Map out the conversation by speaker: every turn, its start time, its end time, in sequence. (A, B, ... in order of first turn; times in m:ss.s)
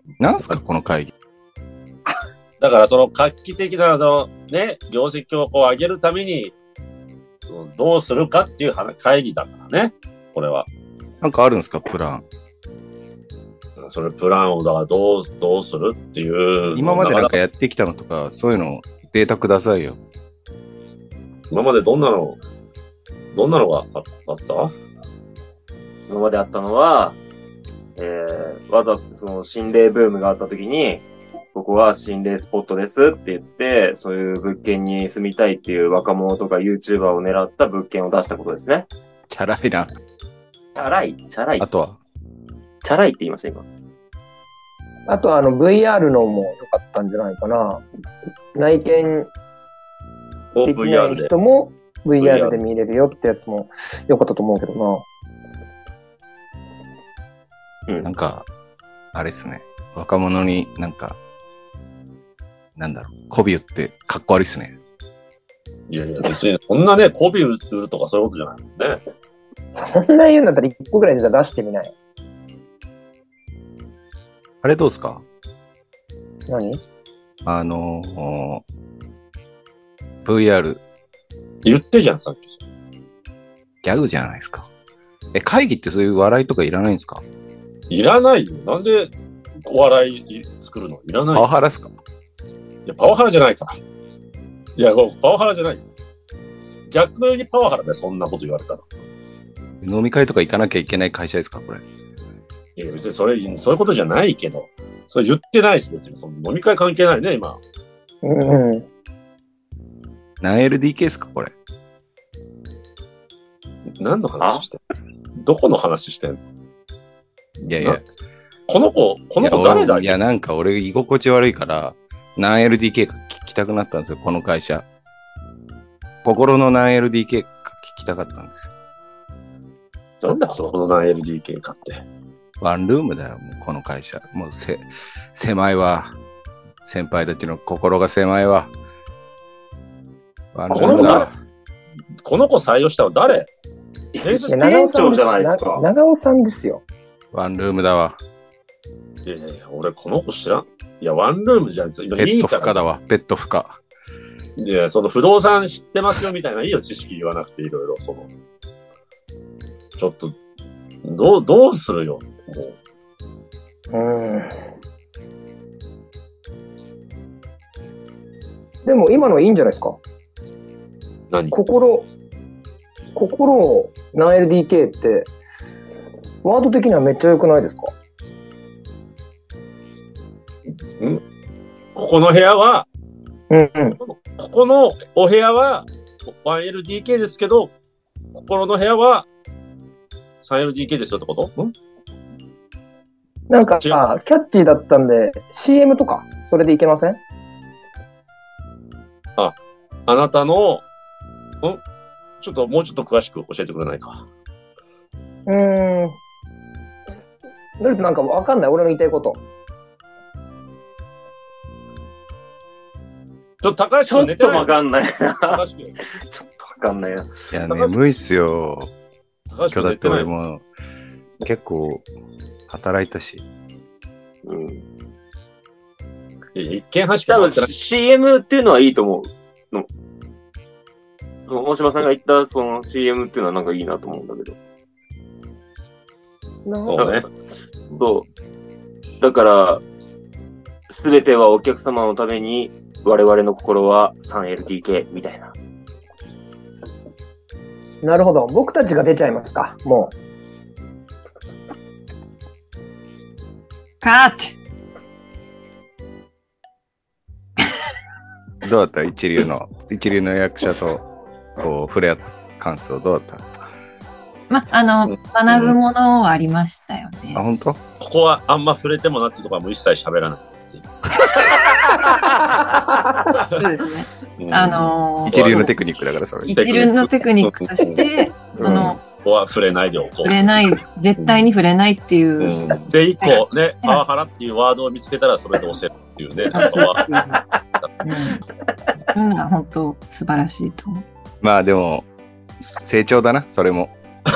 0:00.2-0:01.1 A
0:02.6-0:06.5 B
0:07.5-0:10.7 B
0:11.2-0:12.2 A
0:13.8-0:17.3 B
0:16.7-0:20.0 A
0:21.5-0:22.4 B
0:23.3-0:24.7 B
0:26.1-0:27.2 C
0:28.0-0:38.9 C
0:39.3-0:39.9 A
0:40.7-0:41.6 C
0:41.6-0:42.0 A
0:42.8-0:43.6 C
0:45.1-0:47.8 D
0:48.5-0:49.3 D
0:50.5-0:51.3 B
0:50.6-0:55.0 D
0:52.2-0:52.6 B
0:58.0-0:58.5 A
0:59.1-1:01.2 A
1:02.8-1:04.7 A
1:05.9-1:09.0 B
1:09.7-1:11.9 D
1:14.6-1:15.2 A
1:16.5-1:16.8 D
1:17.4-1:18.6 A
1:20.2-1:20.8 A
1:21.6-1:22.6 B
1:23.8-1:24.7 A
1:25.3-1:27.2 A
1:27.9-1:31.5 B
1:31.3-1:31.9 A
1:32.8-1:33.8 B
1:34.8-1:35.8 B
1:36.9-1:38.8 B
1:39.8-1:41.8 A
1:42.8-1:47.6 B
1:48.2-1:48.8 D
1:50.4-1:51.5 A
1:54.0-1:54.8 B
1:55.4-1:56.4 B
1:57.6-1:58.0 B
1:57.7-1:58.0 A
1:58.7-2:00.2 B
1:59.4-2:04.8 A
2:06.2-2:08.7 A
2:10.2-2:12.0 B
2:12.6-2:16.1 A
2:16.8-2:18.7 A
2:20.5-2:21.3 A
2:20.7-2:21.3 B
2:20.8-2:21.2 D
2:22.2-2:23.5 B
2:24.1-2:25.8 C
2:24.2-2:24.6 B
2:24.5-2:26.8 D
2:27.3-2:28.2 A
2:29.2-2:32.9 B
2:32.2-2:33.8 A
2:34.6-2:38.3 B
2:40.0-2:40.4 B
2:41.0-2:42.7 B
2:43.9-2:44.6 D
2:48.8-2:50.0 D
2:51.3-2:51.6 B
2:51.5-2:52.1 D
2:53.1-2:55.3 D
2:56.4-2:57.9 D
3:02.0-3:02.8 B
3:03.5-3:04.0 D
3:04.0-3:07.7 B
3:08.3-3:09.2 B
3:10.4-3:11.7 B
3:13.5-3:17.2 D
3:20.1-3:20.8 B
3:22.4-3:24.2 B
3:25.5-3:26.2 D
3:27.8-3:29.4 D
3:33.6-3:34.8 B
3:34.1-3:37.5 C
3:35.4-3:35.9 B
3:37.5-3:38.9 A
3:37.6-3:37.9 B
3:39.5-3:40.3 B
3:39.7-3:40.6 A
3:41.4-3:42.0 A
3:42.7-3:43.4 A
3:44.4-3:44.8 C
3:46.5-3:47.7 B
3:47.3-3:49.9 C
3:51.5-3:54.6 C
3:56.6-3:57.1 D
3:56.9-3:57.2 B
3:57.0-3:57.3 C
3:57.9-3:58.2 C
3:59.2-3:59.8 C
4:00.9-4:05.5 C
4:08.0-4:10.1 D
4:14.0-4:14.5 E
4:18.6-4:21.0 A
4:21.6-4:23.5 A
4:24.5-4:27.4 E
4:25.0-4:25.8 B
4:27.3-4:27.8 A
4:28.0-4:31.6 B
4:33.5-4:35.8 E
4:34.4-4:35.8 B
4:35.2-4:36.6 A
4:36.4-4:39.0 E
4:36.6-4:38.0 B
4:38.6-4:38.9 A
4:38.6-4:40.4 B
4:40.2-4:44.0 E
4:41.2-4:41.4 B
4:42.4-4:47.1 B
4:46.5-4:47.4 E
4:48.0-4:48.4 E
4:49.1-4:51.0 E
4:51.4-4:52.0 A
4:52.7-4:53.9 A